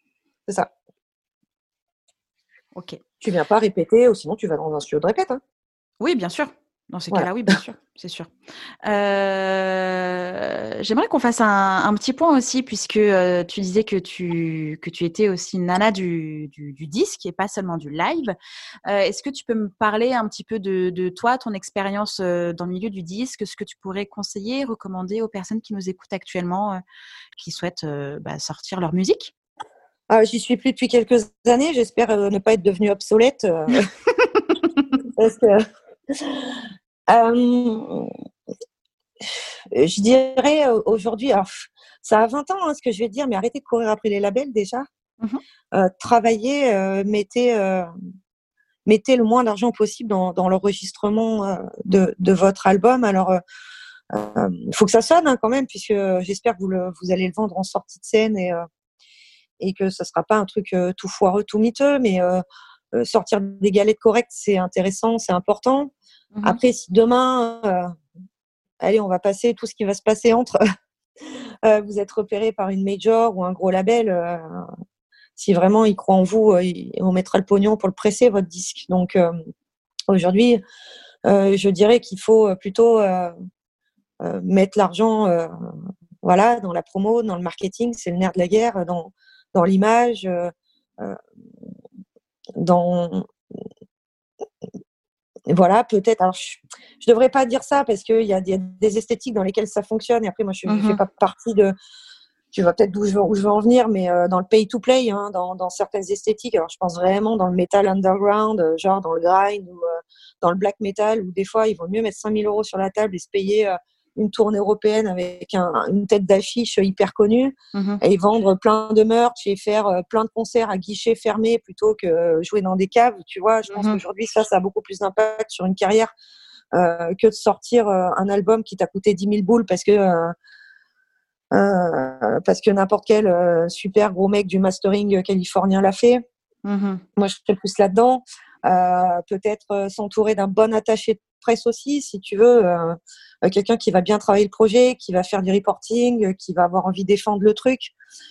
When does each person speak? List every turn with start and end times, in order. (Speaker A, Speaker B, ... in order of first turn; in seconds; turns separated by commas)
Speaker A: 2.7-3.0, Speaker B: 3.2-5.4, Speaker A: 6.0-8.3, Speaker A: 8.8-18.4, Speaker A: 18.9-26.8, Speaker A: 27.4-29.3, Speaker B: 30.1-33.9, Speaker A: 34.2-34.9, Speaker B: 35.0-38.1, Speaker B: 39.7-44.9, Speaker B: 45.7-47.9, Speaker B: 48.9-53.4, Speaker B: 54.1-58.6, Speaker B: 59.6-62.4, Speaker B: 62.9-65.9, Speaker A: 66.3-66.6, Speaker B: 66.4-67.9, Speaker B: 68.8-70.6, Speaker B: 71.6-74.7, Speaker B: 75.4-79.3, Speaker B: 80.1-80.6, Speaker B: 81.2-83.3, Speaker B: 84.2-85.5, Speaker B: 86.2-91.2, Speaker B: 92.6-93.3, Speaker B: 95.5-101.7, Speaker A: 100.7-101.0, Speaker B: 102.5-126.1, Speaker A: 117.7-118.0, Speaker A: 123.7-124.0, Speaker B: 126.7-130.3, Speaker B: 131.5-136.2, Speaker A: 136.6-137.0, Speaker B: 137.2-147.9